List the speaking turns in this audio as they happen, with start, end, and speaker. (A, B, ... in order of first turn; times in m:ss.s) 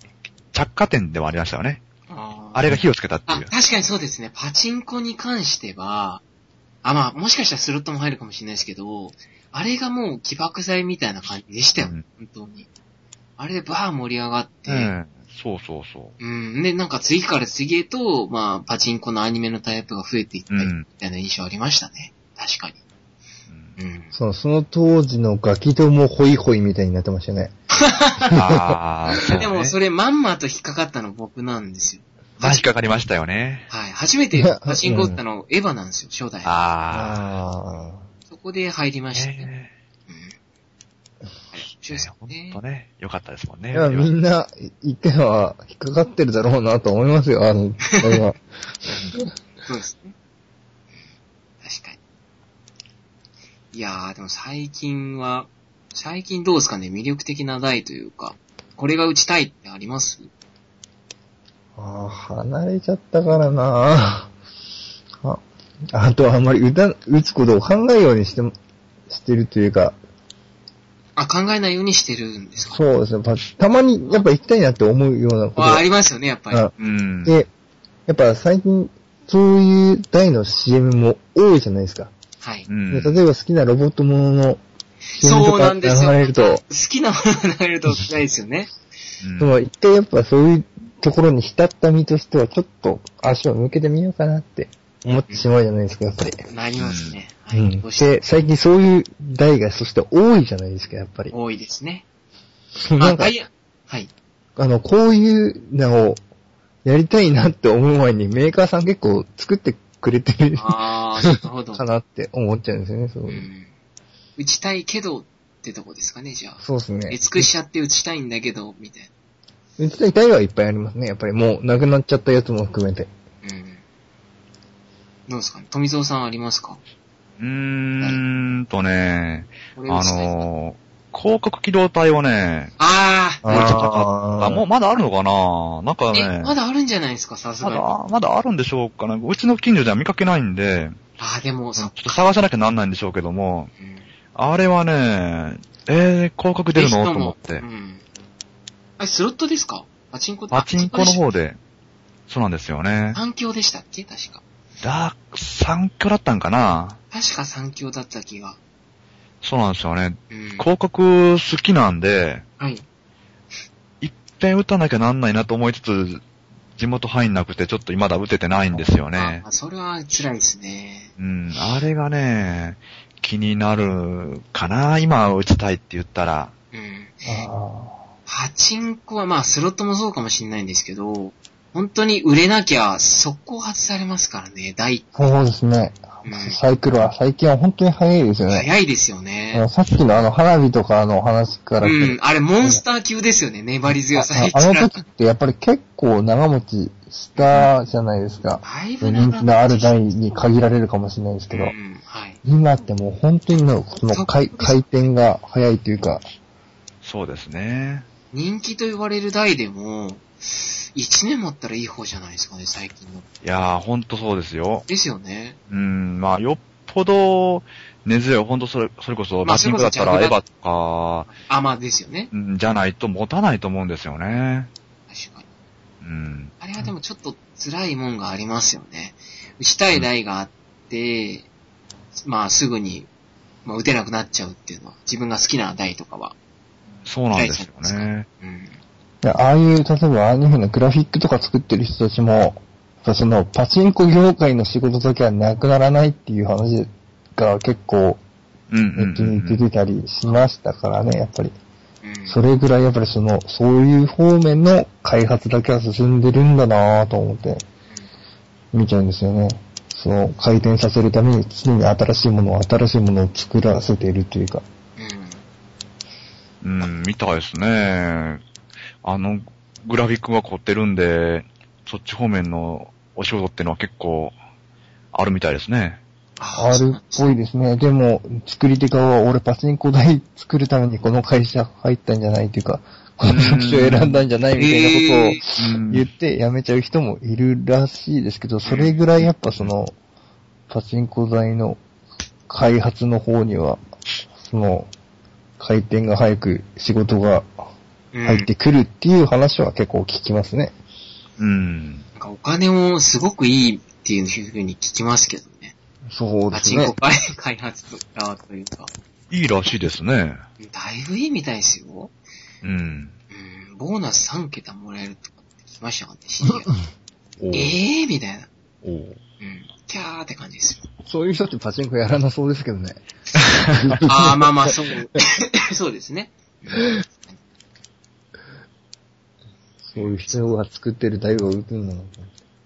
0:00.5-0:01.8 A
0:02.1-0:02.7 B
0:02.5-0:03.5 A
0:03.3-0:06.2 B
0:06.8-0:12.7 B
0:13.4-0:14.9 B
0:14.7-0:16.2 A
0:16.2-0:22.8 B
0:20.5-0:20.8 A
0:23.5-0:23.8 A
0:23.8-0:24.1 B
0:24.1-0:27.5 C
0:27.7-0:28.4 B
0:28.3-0:28.8 C
0:28.3-0:29.8 A
0:29.4-0:32.7 B
0:32.4-0:33.7 A
0:33.7-0:36.5 B
0:34.4-0:35.2 C
0:36.4-0:37.4 A
0:36.9-0:38.0 C
0:38.3-0:39.5 B
0:39.1-0:39.7 A
0:40.1-0:40.4 B
0:41.5-0:42.6 B
0:41.7-0:44.1 A
0:43.7-0:48.4 C
0:49.6-0:50.2 B
0:51.6-0:52.0 B
0:53.7-1:00.3 B
1:01.8-1:04.3 C
1:05.2-1:08.6 C
1:09.1-1:10.0 C
1:11.2-1:12.8 B
1:12.6-1:15.9 C
1:15.6-1:16.8 B
1:16.8-1:17.4 A
1:18.1-1:22.1 C
1:22.4-1:22.7 B
1:22.7-1:23.2 A
1:22.9-1:24.6 C
1:25.1-1:28.7 B
1:25.2-1:26.6 C
1:29.2-1:29.5 A
1:29.4-1:36.4 C
1:36.5-1:38.1 B
1:36.8-1:37.2 A
1:37.5-1:41.3 C
1:41.3-1:42.0 B
1:42.9-1:43.3 C
1:43.0-1:44.1 B
1:44.6-1:46.2 C
1:46.8-1:50.8 C
1:50.6-1:51.8 B
1:51.8-1:53.5 C
1:53.3-1:53.7 B
1:54.4-1:59.1 B
1:56.6-1:57.5 C
1:59.8-2:03.1 C
2:03.4-2:03.8 B
2:05.3-2:06.8 B
2:07.4-2:12.7 A
2:09.8-2:10.5 B
2:12.8-2:13.6 B
2:13.4-2:14.6 C
2:13.5-2:16.5 A
2:16.1-2:17.9 B
2:17.6-2:21.0 A
2:21.2-2:22.3 B
2:21.8-2:23.7 A
2:23.8-2:24.1 B
2:24.4-2:27.6 A
2:26.8-2:28.0 B
2:29.0-2:31.3 B
2:30.5-2:31.6 A
2:32.3-2:33.2 A
2:33.2-2:34.4 B
2:34.8-2:37.0 A
2:37.1-2:38.6 B
2:39.4-2:42.4 A
2:40.3-2:40.7 B
2:42.6-2:42.8 B
2:44.0-2:46.2 A
2:46.8-2:49.4 A
2:48.8-2:51.1 B
2:51.2-2:56.5 A
2:56.7-2:57.4 B
2:57.2-2:58.0 C
2:58.3-3:05.1 B
3:05.2-3:08.7 C
3:06.2-3:06.6 B
3:08.5-3:09.7 B
3:09.5-3:12.8 C
3:11.8-3:15.0 B
3:14.1-3:21.8 C
3:18.6-3:20.5 B
3:21.5-3:22.4 B
3:22.4-3:26.2 C
3:24.1-3:25.1 B
3:27.0-3:28.1 A
3:28.3-3:33.2 B
3:33.4-3:34.9 A
3:34.9-3:35.6 B
3:35.7-3:41.3 A
3:39.4-3:40.4 B
3:41.3-3:42.3 B
3:42.3-3:44.7 A
3:45.1-3:45.5 B
3:46.0-3:46.5 A
3:46.6-3:51.5 B
3:52.2-3:53.1 B
3:53.6-3:56.4 B
3:57.1-3:58.3 A
3:57.3-3:58.8 B
3:59.2-4:08.2 C
4:08.7-4:09.6 A
4:09.0-4:11.5 C
4:12.0-4:12.4 B
4:12.3-4:17.6 C
4:18.7-4:24.6 C
4:25.0-4:25.4 B
4:26.6-4:28.4 A
4:29.0-4:34.3 A
4:35.1-4:36.0 A
4:36.4-4:37.4 B
4:36.5-4:50.0 C
4:43.3-4:44.2 A
4:44.6-4:45.4 B
4:45.6-4:46.1 A
4:48.6-4:49.0 B
4:50.7-4:51.8 C
4:52.5-4:53.8 C
4:54.4-4:54.9 C
4:55.6-4:57.5 C
4:58.1-4:58.5 B
4:58.2-5:00.7 C
5:01.4-5:02.0 A
5:02.2-5:05.7 B
5:06.1-5:07.0 C
5:06.5-5:08.9 B
5:09.3-5:10.4 A
5:10.6-5:12.1 B
5:12.6-5:13.2 A
5:13.3-5:16.7 B
5:17.4-5:17.8 A
5:17.5-5:18.5 B
5:18.8-5:19.2 A
5:19.4-5:20.9 B
5:21.1-5:23.0 C
5:23.4-5:24.0 A
5:23.7-5:24.5 C
5:24.1-5:27.4 B
5:29.9-5:32.3 C
5:30.0-5:30.5 B